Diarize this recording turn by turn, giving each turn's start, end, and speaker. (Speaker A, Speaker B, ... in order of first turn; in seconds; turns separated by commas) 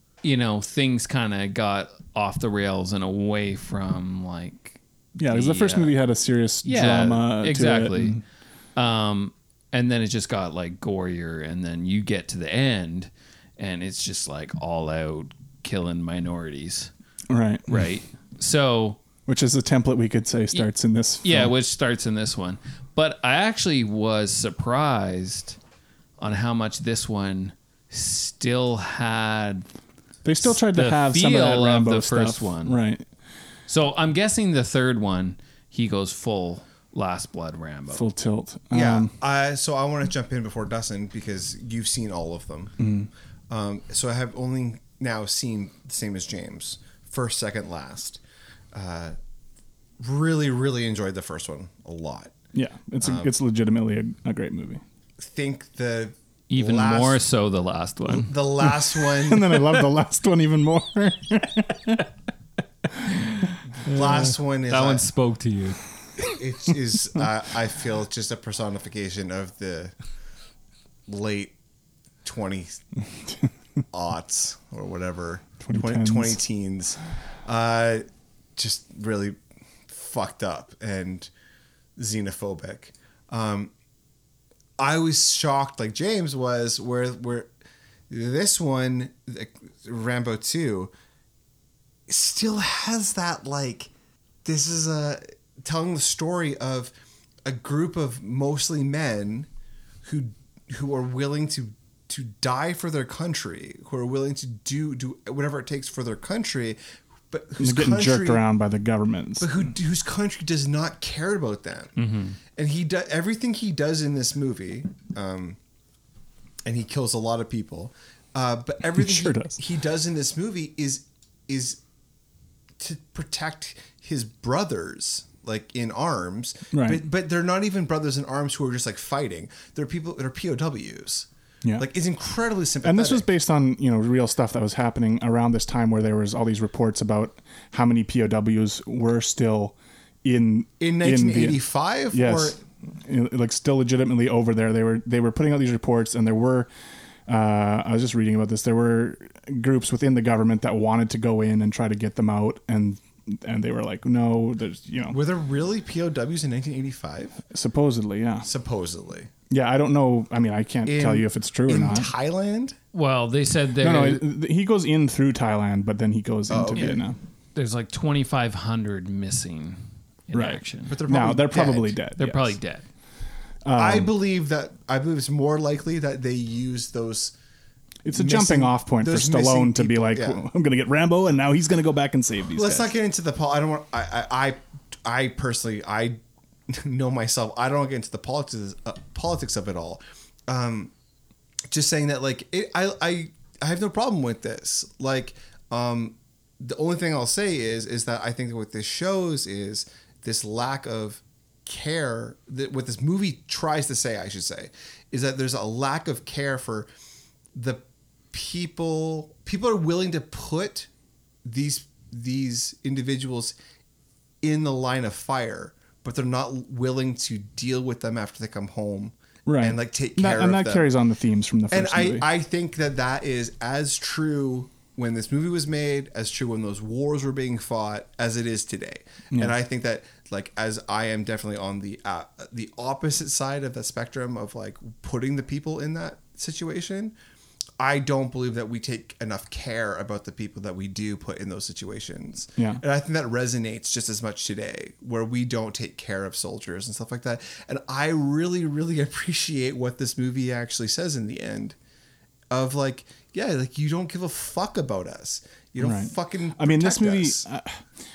Speaker A: 0.2-6.0, Speaker B: 5.2-8.2, Speaker A: 6.7-8.2, Speaker A: 8.8-16.9, Speaker B: 17.3-17.8, Speaker A: 17.7-19.0, Speaker B: 19.3-21.5, Speaker A: 21.2-25.6, Speaker A: 26.2-29.7, Speaker B: 30.2-33.0, Speaker A: 30.4-32.8, Speaker A: 33.7-38.0, Speaker B: 37.9-39.1, Speaker C: 38.7-42.8, Speaker B: 42.8-43.1, Speaker C: 43.5-48.2, Speaker C: 48.7-49.1, Speaker C: 50.0-52.3, Speaker B: 52.5-54.8, Speaker C: 53.0-53.3, Speaker C: 55.2-57.2, Speaker A: 56.5-58.3, Speaker C: 58.1-59.6, Speaker B: 59.2-62.0, Speaker C: 63.9-65.1, Speaker A: 63.9-65.8, Speaker C: 66.3-69.9, Speaker C: 71.1-71.5, Speaker C: 72.2-72.8, Speaker C: 73.9-78.0, Speaker B: 75.6-76.4, Speaker C: 78.6-79.4, Speaker C: 79.9-81.3, Speaker C: 82.0-83.7, Speaker C: 84.8-87.5, Speaker C: 88.1-90.9, Speaker C: 92.1-93.9, Speaker C: 94.5-96.9, Speaker C: 97.5-99.5, Speaker C: 100.0-106.8, Speaker C: 107.3-108.5, Speaker B: 107.6-109.5, Speaker C: 109.4-112.0, Speaker A: 112.0-112.4, Speaker C: 112.6-115.6, Speaker C: 116.7-121.8, Speaker B: 119.0-119.5, Speaker C: 122.8-133.3, Speaker B: 126.7-127.0, Speaker B: 132.8-141.6, Speaker C: 140.8-142.6, Speaker B: 142.1-146.7, Speaker B: 147.3-155.2, Speaker C: 155.1-157.4, Speaker B: 157.5-158.5, Speaker C: 158.4-159.3, Speaker B: 159.5-162.1, Speaker C: 160.9-162.8, Speaker A: 162.9-164.2, Speaker B: 163.8-167.2, Speaker C: 166.5-167.0, Speaker A: 167.6-171.0, Speaker B: 170.3-172.6, Speaker C: 170.9-172.0, Speaker A: 172.2-172.8, Speaker B: 173.7-174.1, Speaker C: 173.8-177.3, Speaker B: 178.1-182.9, Speaker C: 178.1-180.4, Speaker C: 182.6-186.2, Speaker C: 186.7-190.9, Speaker C: 191.7-206.9, Speaker C: 207.6-210.9, Speaker C: 211.4-213.6, Speaker C: 214.4-220.9, Speaker B: 219.5-222.3, Speaker C: 221.7-237.1, Speaker C: 237.8-251.8, Speaker C: 252.5-257.4, Speaker B: 255.8-257.8